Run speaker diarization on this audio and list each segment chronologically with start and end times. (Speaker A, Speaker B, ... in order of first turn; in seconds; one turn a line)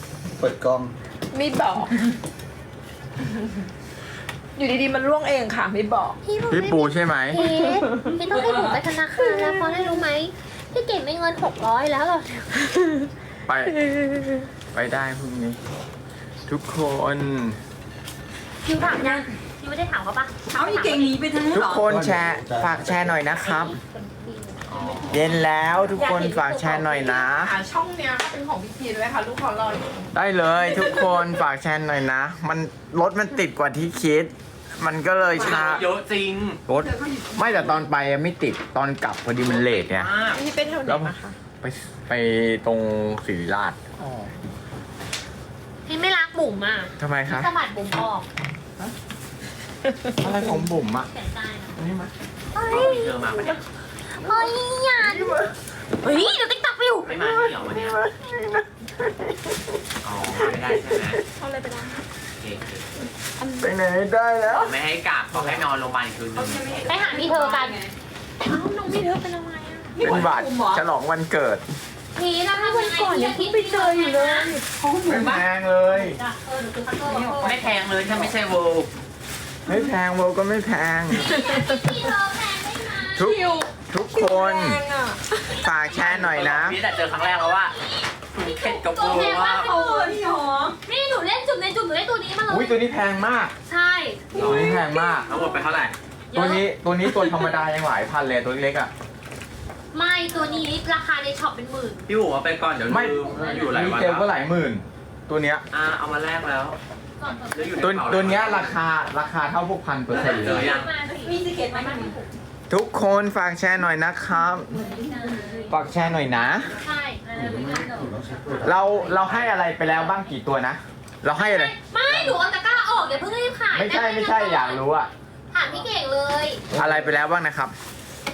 Speaker A: 0.4-0.9
Speaker B: 1.3-2.0
Speaker B: 4.5-6.2
Speaker C: 6.2-12.5
Speaker D: 6.5-7.4
Speaker B: 7.3-8.2
Speaker B: 9.2-9.9
Speaker D: 13.5-13.7
Speaker B: 13.8-14.4
Speaker D: 14.7-15.6
Speaker D: 16.5-17.6
Speaker C: 18.6-21.2
Speaker E: 20.5-21.9
Speaker D: 21.5-23.8
Speaker A: 21.8-23.2
Speaker C: 23.3-25.1
Speaker F: 24.7-25.2
Speaker D: 25.1-27.5
Speaker C: 25.9-27.0
Speaker B: 26.9-30.1
Speaker D: 30.1-35.9
Speaker B: 30.7-31.2
Speaker F: 35.3-36.6
Speaker D: 36.7-40.1
Speaker E: 36.8-37.8
Speaker F: 39.5-40.4
Speaker B: 40.2-41.3
Speaker D: 40.8-43.8
Speaker C: 45.9-48.2
Speaker D: 47.0-47.5
Speaker D: 50.2-51.1
Speaker C: 50.9-51.7
Speaker D: 51.8-52.1
Speaker C: 52.5-53.5
Speaker F: 52.6-53.6
Speaker C: 54.2-55.4
Speaker D: 55.0-55.5
Speaker C: 56.0-57.1
Speaker F: 57.0-58.0
Speaker D: 57.2-59.6
Speaker F: 60.0-61.2
Speaker D: 60.5-61.1
Speaker B: 61.4-62.0
Speaker F: 62.4-62.9
Speaker E: 63.4-63.7
Speaker D: 63.6-64.8
Speaker F: 64.5-66.9
Speaker E: 66.3-67.9
Speaker C: 66.9-67.8
Speaker C: 68.4-70.0
Speaker E: 69.9-70.8
Speaker D: 70.0-71.6
Speaker C: 72.1-74.5
Speaker B: 72.5-74.7
Speaker E: 74.7-75.4
Speaker D: 75.0-76.2
Speaker C: 75.9-77.8
Speaker E: 77.0-77.6
Speaker F: 77.4-78.9
Speaker D: 79.7-81.3
Speaker C: 81.2-83.2
Speaker B: 81.2-81.9
Speaker D: 83.1-84.8
Speaker B: 83.2-85.7
Speaker D: 85.6-86.8
Speaker C: 85.7-90.1
Speaker F: 85.9-87.8
Speaker F: 88.3-89.7
Speaker E: 89.6-90.8
Speaker C: 90.8-92.8
Speaker D: 92.5-93.5
Speaker C: 93.7-94.5
Speaker D: 94.3-95.3
Speaker F: 94.3-95.9
Speaker B: 94.4-95.2
Speaker C: 96.3-96.6
Speaker D: 96.3-98.9
Speaker C: 99.9-102.0
Speaker F: 102.1-104.3
Speaker D: 102.8-105.6
Speaker F: 105.7-106.8
Speaker C: 107.2-107.8
Speaker F: 107.5-108.8
Speaker D: 107.8-110.7
Speaker C: 110.2-112.3
Speaker F: 110.2-110.9
Speaker E: 111.1-112.2
Speaker D: 112.7-114.7
Speaker E: 114.7-115.7
Speaker D: 115.7-116.7
Speaker C: 116.7-117.3
Speaker A: 117.3-118.9
Speaker D: 118.6-121.7
Speaker F: 119.1-119.5
Speaker C: 121.4-124.8
Speaker D: 123.7-125.1
Speaker C: 125.5-126.6
Speaker A: 126.7-127.1
Speaker D: 126.7-127.7